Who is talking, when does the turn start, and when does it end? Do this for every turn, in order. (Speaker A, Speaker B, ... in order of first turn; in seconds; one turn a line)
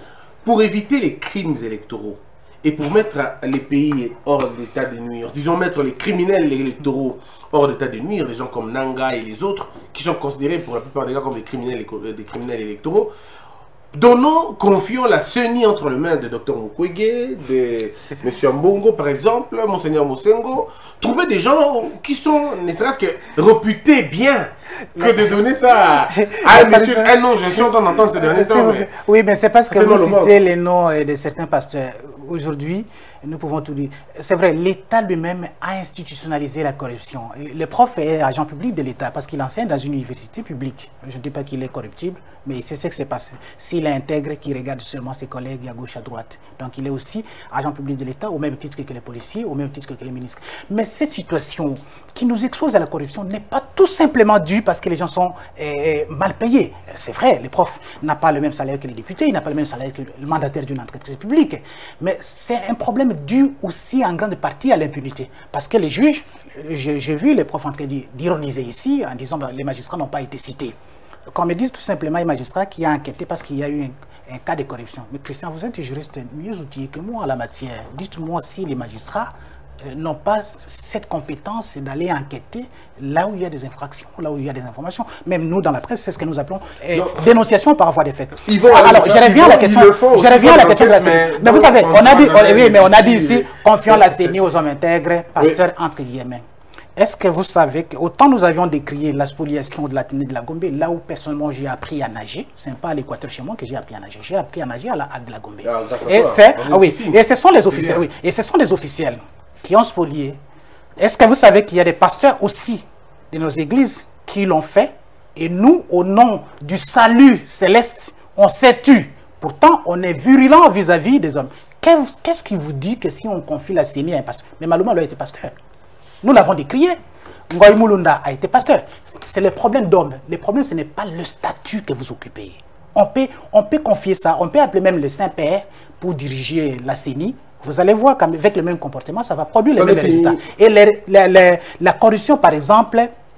Speaker A: 0.4-13.1
Speaker A: 13.9-28.9
Speaker B: 26.1-70.8
Speaker A: 29.7-30.4
Speaker B: 71.3-96.4
Speaker A: 86.9-87.2
Speaker A: 88.5-94.4
Speaker B: 97.0-110.4
Speaker A: 105.6-108.0
Speaker B: 111.0-125.6
Speaker B: 126.2-127.0
Speaker B: 127.5-143.1
Speaker A: 139.7-140.4